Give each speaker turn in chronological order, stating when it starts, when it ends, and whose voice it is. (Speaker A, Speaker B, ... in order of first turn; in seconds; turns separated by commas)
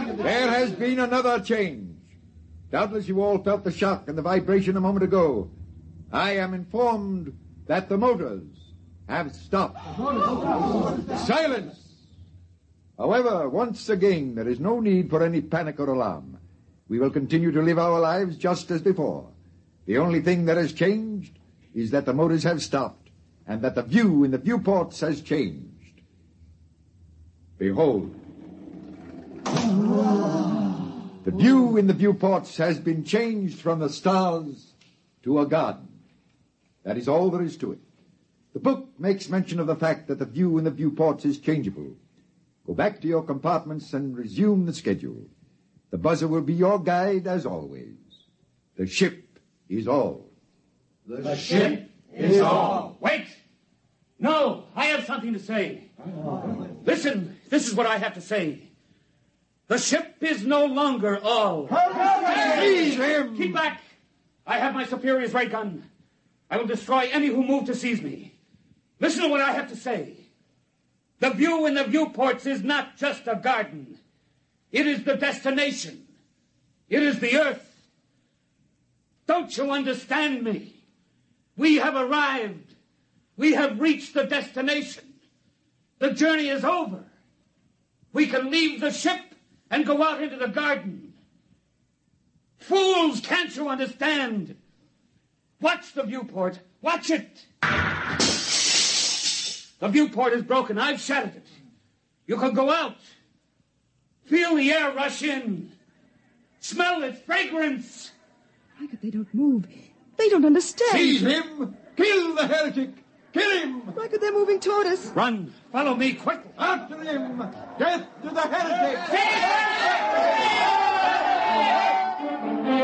Speaker A: 0.2-2.1, Speaker A: 2.7-5.5, Speaker A: 6.1-11.8, Speaker A: 13.0-19.3, Speaker A: 19.9-26.0, Speaker A: 27.6-28.2, Speaker A: 31.2-36.0, Speaker A: 36.8-37.8, Speaker A: 38.5-42.0, Speaker A: 42.6-45.3, Speaker A: 45.9-48.0, Speaker A: 48.8-50.3, Speaker B: 51.5-51.7, Speaker B: 52.3-53.4, Speaker B: 54.2-55.9, Speaker B: 56.7-58.7, Speaker B: 59.7-63.8, Speaker A: 62.2-63.6, Speaker B: 64.5-65.8, Speaker B: 66.5-68.3, Speaker B: 69.0-70.3, Speaker B: 71.2-74.0, Speaker B: 74.7-76.0, Speaker B: 76.9-77.8, Speaker B: 79.3-80.8, Speaker B: 81.5-82.7, Speaker B: 83.4-85.1, Speaker B: 86.0-87.1, Speaker B: 88.1-91.1, Speaker B: 92.6-94.6, Speaker B: 95.6-97.5, Speaker B: 99.8-101.5, Speaker B: 102.3-103.0, Speaker B: 104.2-105.7, Speaker B: 106.6-108.1, Speaker C: 108.8-111.3, Speaker A: 110.8-113.9, Speaker C: 113.9-115.1, Speaker B: 115.1-116.5, Speaker A: 116.6-119.3